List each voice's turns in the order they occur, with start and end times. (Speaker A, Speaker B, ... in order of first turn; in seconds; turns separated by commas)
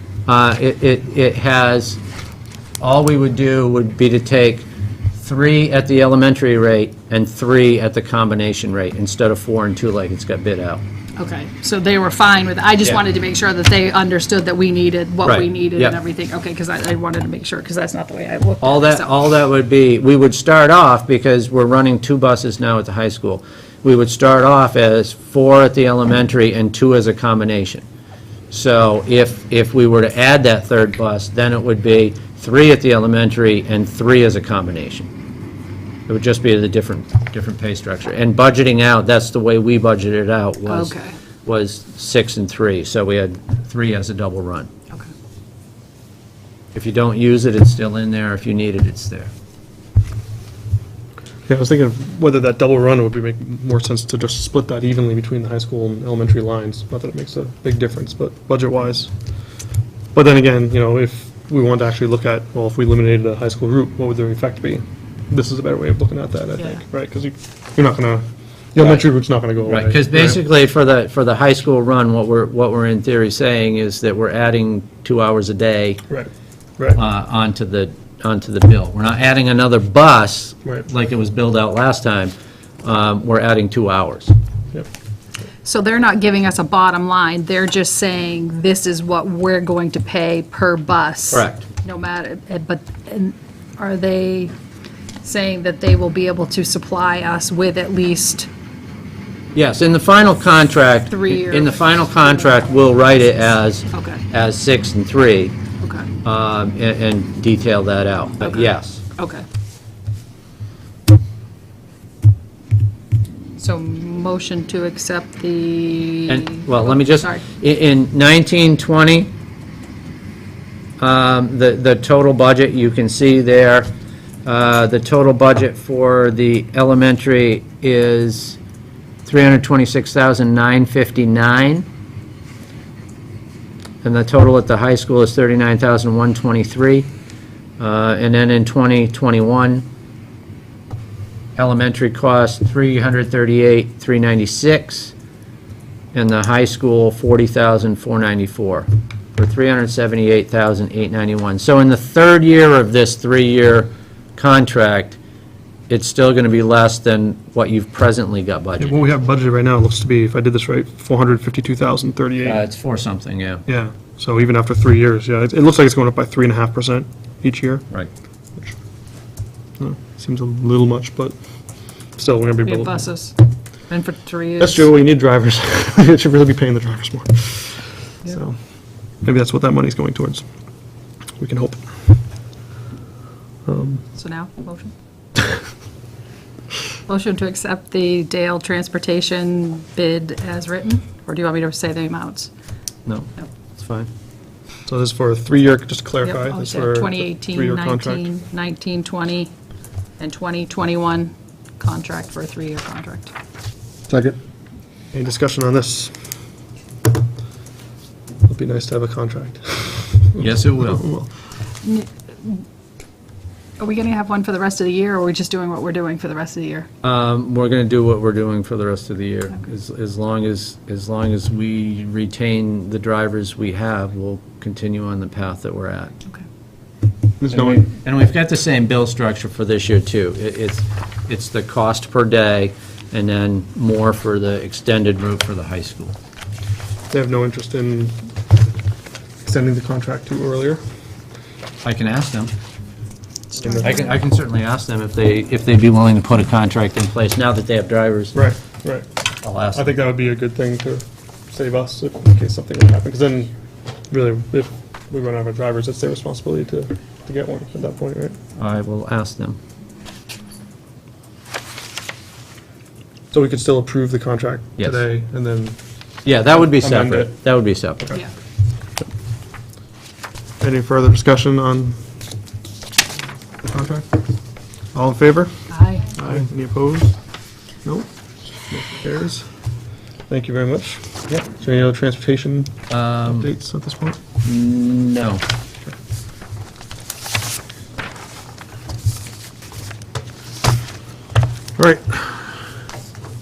Speaker A: 0.3-2.0, Speaker A: 2.8-10.8, Speaker B: 11.2-19.3, Speaker A: 15.2-15.9, Speaker A: 18.6-27.8, Speaker A: 28.5-35.1, Speaker A: 36.1-40.9, Speaker B: 40.6-41.1, Speaker A: 41.5-44.7, Speaker A: 46.7-49.3, Speaker C: 51.5-59.1, Speaker C: 60.1-70.4, Speaker A: 69.7-76.0, Speaker C: 76.1-77.0, Speaker A: 76.9-84.3, Speaker B: 85.6-94.5, Speaker A: 91.3-91.7, Speaker B: 95.2-98.5, Speaker A: 99.5-105.5, Speaker B: 101.1-101.8, Speaker B: 103.9-104.2, Speaker B: 105.8-106.1, Speaker A: 106.2-109.0, Speaker B: 108.4-109.4, Speaker B: 113.6-117.4, Speaker A: 116.3-119.3, Speaker A: 121.0-123.9, Speaker A: 124.4-128.6, Speaker A: 129.2-131.9, Speaker A: 134.0-137.1, Speaker A: 137.8-139.8, Speaker A: 141.6-145.1, Speaker A: 146.1-155.2, Speaker A: 155.9-159.0, Speaker C: 158.8-162.6, Speaker A: 162.4-163.6, Speaker C: 163.7-167.9, Speaker C: 169.8-171.3, Speaker C: 172.2-173.1, Speaker B: 172.6-173.4, Speaker B: 173.9-174.9, Speaker C: 174.6-178.6, Speaker C: 179.2-180.4, Speaker C: 181.4-181.9, Speaker C: 183.7-184.0, Speaker B: 184.1-184.9, Speaker B: 187.1-192.5, Speaker A: 193.1-194.1, Speaker C: 194.9-198.3, Speaker B: 196.2-199.5, Speaker B: 200.2-203.3, Speaker C: 204.1-204.4, Speaker C: 205.1-206.1, Speaker C: 208.4-211.3, Speaker A: 210.4-211.0, Speaker B: 211.8-212.6, Speaker B: 213.8-216.9, Speaker A: 217.0-226.1, Speaker C: 227.4-227.9, Speaker A: 227.5-236.2, Speaker C: 237.1-238.1, Speaker C: 239.4-240.8, Speaker A: 241.8-242.5, Speaker B: 243.5-244.2, Speaker A: 243.6-248.5, Speaker C: 248.3-249.1, Speaker A: 249.4-250.0, Speaker C: 249.7-253.5, Speaker C: 254.1-258.4, Speaker A: 258.6-259.6, Speaker C: 263.3-265.8, Speaker A: 264.8-265.0, Speaker A: 266.2-268.0, Speaker C: 266.5-267.4, Speaker C: 270.6-272.0, Speaker C: 273.6-274.1, Speaker C: 274.9-277.2, Speaker B: 275.7-276.1, Speaker C: 278.6-279.5, Speaker C: 280.3-284.2, Speaker A: 282.9-283.5, Speaker A: 284.4-285.4, Speaker C: 291.8-292.6